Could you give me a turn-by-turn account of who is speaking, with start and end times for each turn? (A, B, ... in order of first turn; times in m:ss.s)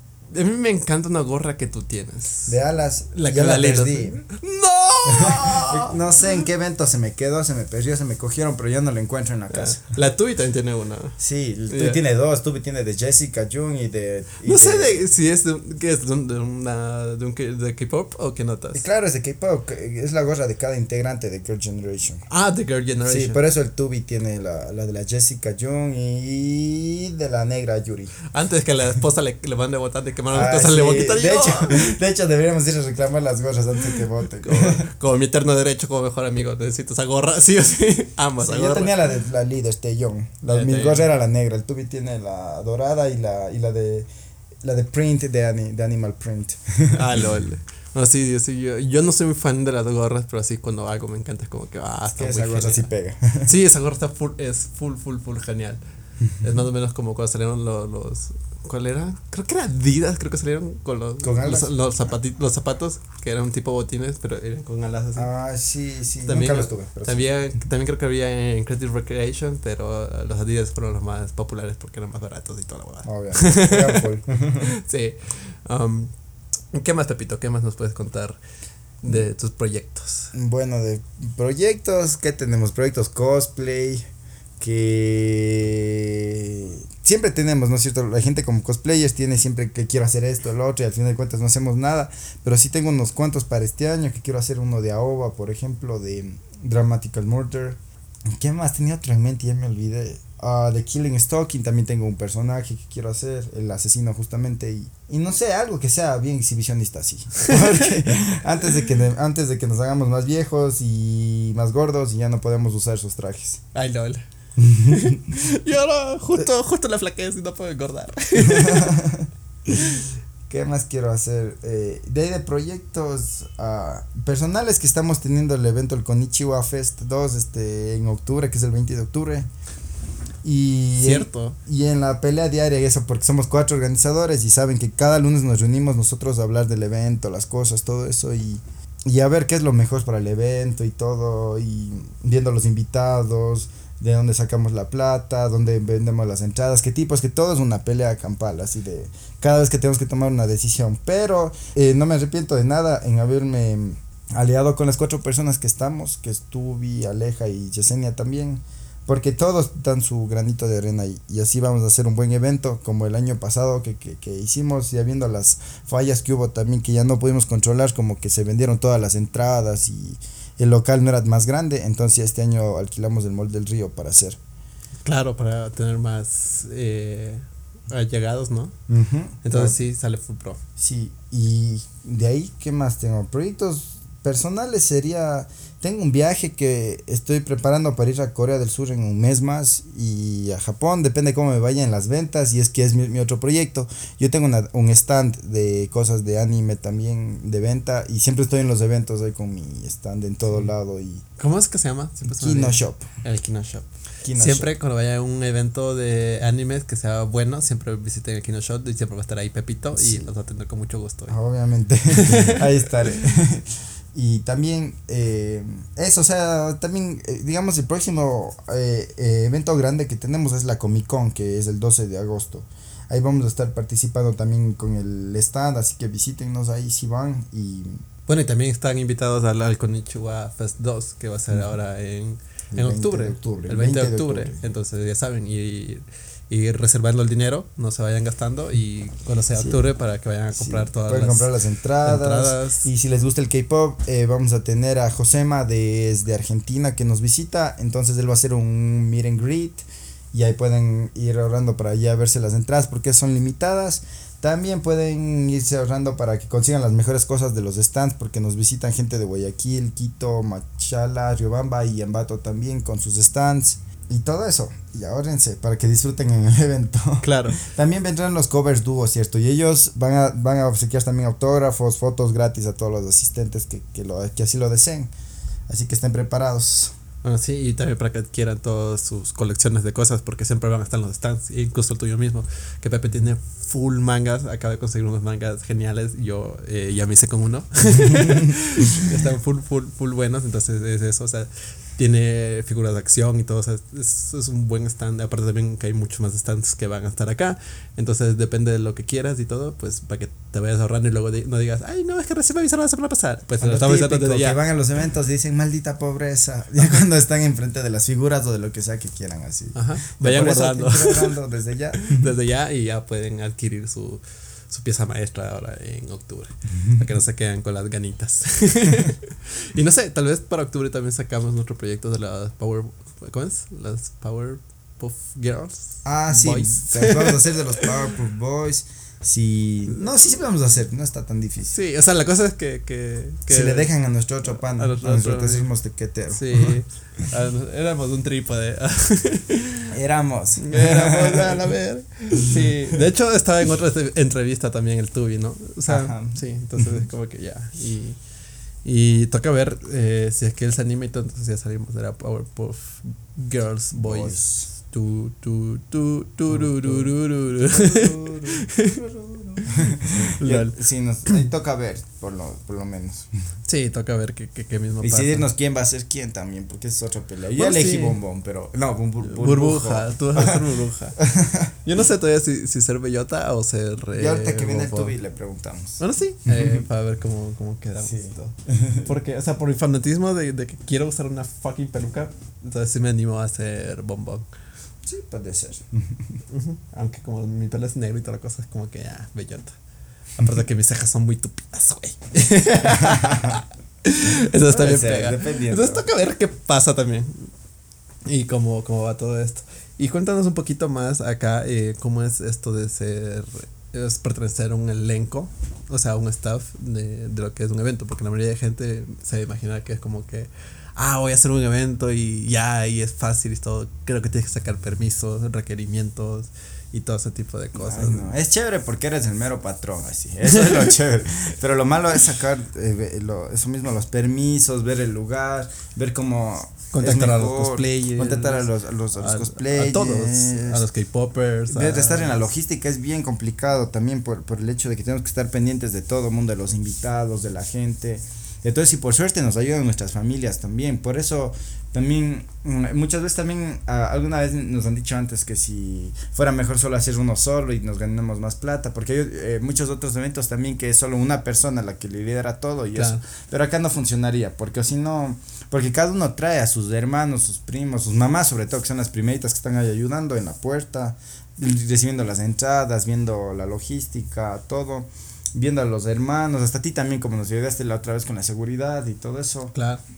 0:00.3-0:02.6 A
0:02.5-0:04.3 B
0:03.1-0:06.0 A
0:05.1-0:09.8 B
0:09.5-0:11.2 A
0:11.2-0:15.0 B
0:11.7-0:12.0 A
0:14.4-0:18.8 A
0:18.7-0:22.2 B
0:22.3-0:23.4 A
0:23.1-0:28.2 B
0:28.3-0:32.0 A
0:30.3-0:34.9 B
0:34.4-0:39.0 A
0:38.4-0:44.1 B
0:40.4-0:41.1 A
0:44.6-0:47.2 B
0:46.9-0:52.9 A
0:52.2-0:53.5 B
0:53.4-1:05.3 A
1:01.2-1:01.7 B
1:05.2-1:07.4 B
1:06.2-1:14.0 A
1:13.0-1:14.6 B
1:14.6-1:16.2 A
1:16.7-1:18.4 A
1:19.0-1:20.3 A
1:20.3-1:24.1 B
1:24.6-1:53.6 B
1:47.4-1:48.3 A
1:53.7-1:54.2 A
1:54.6-1:55.3 B
1:54.9-1:59.0 A
1:58.4-1:59.3 B
1:59.8-2:00.1 A
2:00.5-2:09.5 B
2:10.4-2:54.4 B
2:11.0-2:11.6 A
2:55.0-2:58.7 A
2:58.9-2:59.8 B
2:59.4-3:00.6 A
3:00.8-3:21.2 B
3:21.4-3:31.4 A
3:22.3-3:23.1 B
3:24.2-3:24.7 B
3:30.0-3:30.3 B
3:31.3-3:48.0 B
3:32.1-3:32.6 A
3:48.3-4:02.9 A
3:52.7-3:54.6 B
4:00.6-4:35.1 B
4:27.2-4:27.6 A
4:35.7-4:37.0 B
4:37.2-5:04.6 A
4:48.0-4:48.5 B
5:03.6-5:12.2 B
5:09.8-5:11.4 A
5:12.0-5:27.9 A
5:26.0-5:31.7 B
5:31.6-5:33.9 A
5:33.5-5:36.8 B
5:34.5-5:35.7 A
5:36.3-5:39.9 A
5:39.9-5:41.7 B
5:40.6-5:48.2 A
5:42.4-5:43.0 B
5:45.9-5:47.0 B
5:48.8-5:59.0 A
5:53.9-5:54.7 B
5:56.5-6:03.3 B
5:59.6-6:00.8 A
6:03.6-6:05.5 A
6:05.0-6:10.6 B
6:07.6-6:08.2 A
6:09.2-6:11.2 A
6:11.2-6:11.7 B
6:11.8-6:15.1 A
6:14.1-6:16.9 B
6:16.0-6:24.5 A
6:18.0-6:19.1 B
6:25.0-6:26.4 B
6:26.5-6:29.7 A
6:30.4-6:37.5 A
6:33.0-6:33.6 B
6:34.7-6:36.1 B
6:38.2-6:58.3 A
6:57.8-7:10.8 B
7:06.9-7:12.4 A
7:11.7-7:49.7 B
7:33.0-7:33.2 A
7:49.7-7:50.0 A